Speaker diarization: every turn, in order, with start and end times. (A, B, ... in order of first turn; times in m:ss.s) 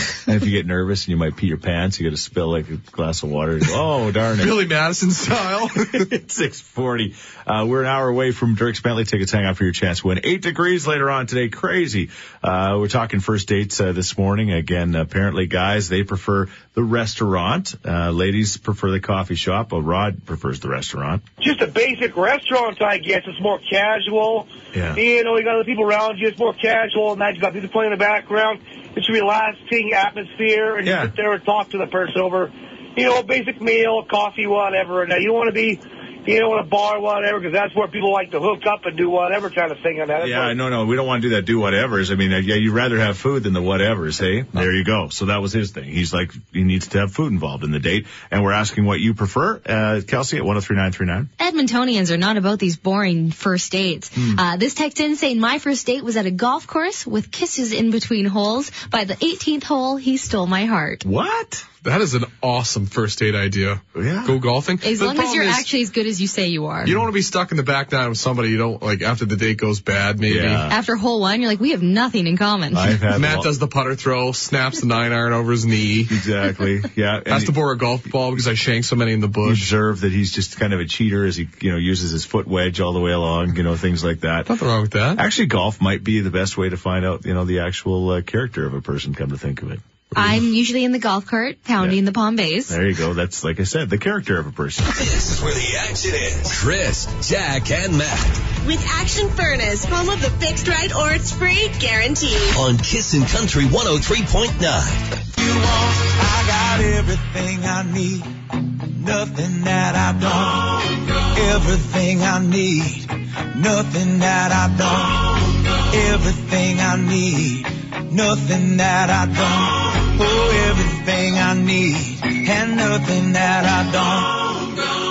0:00.3-0:04.7 A
0:04.4-0:06.1 B
0:05.9-0:21.2 A
0:21.4-0:40.5 C
0:24.7-0:25.0 A
0:30.8-0:31.1 A
0:40.2-0:51.3 A
0:51.4-1:01.0 D
0:54.2-0:54.4 A
1:01.0-1:01.7 A
1:01.8-1:05.7 B
1:04.0-1:04.4 A
1:04.8-1:06.9 D
1:06.8-1:10.7 B
1:10.2-1:10.8 A
1:10.7-1:13.0 D
1:12.7-1:13.5 A
1:13.1-1:16.2 B
1:16.1-1:17.5 A
1:17.3-1:19.7 B
1:19.4-1:24.5 A
1:24.5-1:25.2 B
1:25.2-1:30.4 A
1:30.2-1:32.8 D
1:32.7-1:35.1 A
1:34.9-1:38.4 E
1:38.6-1:42.6 F
1:42.5-1:45.0 E
1:45.4-2:04.9 G